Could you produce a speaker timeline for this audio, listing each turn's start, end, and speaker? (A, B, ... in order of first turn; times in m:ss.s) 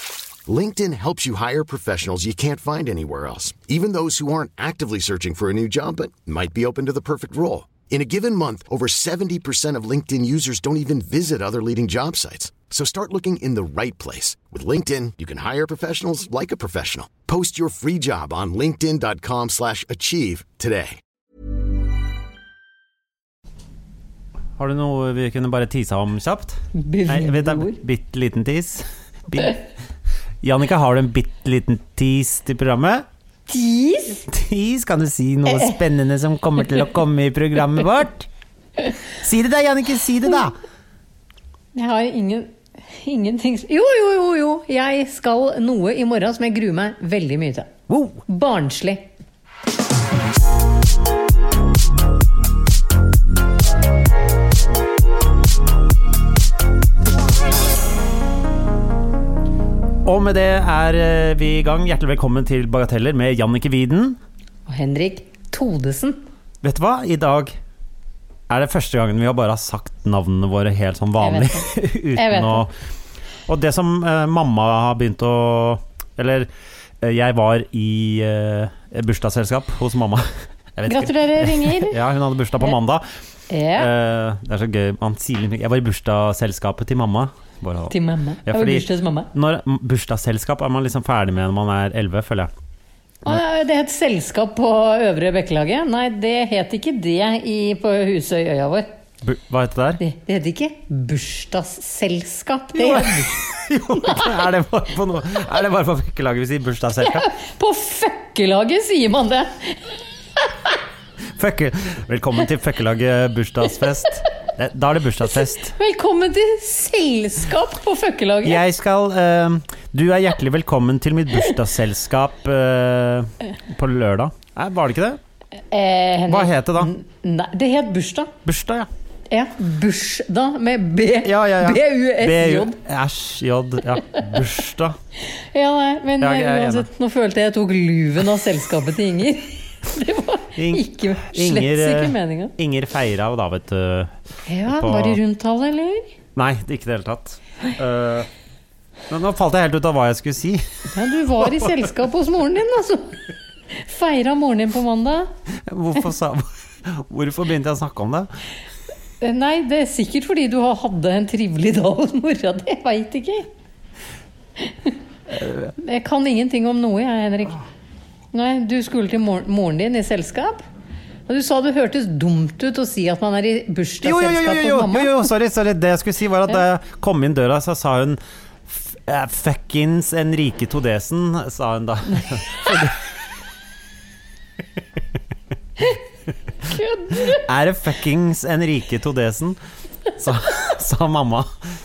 0:00.5-0:21.0 A
0:24.6-0:29.6 B
0:26.7-0:27.8 C
0:30.4-0:33.0 B
0:33.5-0:34.3 C
0:34.3-0:38.3 B
0:35.5-0:35.7 C
0:39.1-0:40.6 B
0:41.7-0:47.7 C
0:47.9-0:48.2 B
0:48.2-0:49.1 C
1:00.0-1:04.2 B
1:04.7-1:06.2 C
1:06.6-1:07.6 B
1:08.5-1:12.7 B
1:11.2-1:12.7 C
1:13.5-1:16.5 B
1:17.0-1:23.0 B
1:20.9-1:22.0 C
1:23.5-1:23.9 C
1:23.7-1:32.5 B
1:27.9-1:29.3 C
1:33.2-1:38.9 C
1:39.2-1:40.0 B
1:40.0-1:43.4 C
1:42.7-1:47.3 B
1:47.1-1:50.5 C
1:51.3-1:55.7 B
1:55.7-1:58.6 C
1:58.4-2:05.2 B
2:05.7-2:08.3 C
2:06.3-2:06.9 B
2:08.4-2:08.9 B
2:09.3-2:12.8 C
2:11.2-2:15.0 B
2:15.2-2:22.5 C
2:16.2-2:16.9 B
2:20.6-2:24.1 B
2:24.4-2:26.1 C
2:24.7-2:25.2 B
2:26.4-2:28.3 B
2:29.1-2:30.6 B
2:30.9-2:35.3 C
2:31.4-2:31.8 B
2:35.5-2:38.3 B
2:39.2-2:43.5 C
2:44.6-2:44.9 C
2:45.3-2:45.7 B
2:45.8-2:47.6 C
2:48.3-2:50.6 C
2:51.3-2:55.1 C
2:54.0-3:03.0 B
3:06.7-3:07.4 C
3:07.1-3:09.6 B
3:10.1-3:11.5 B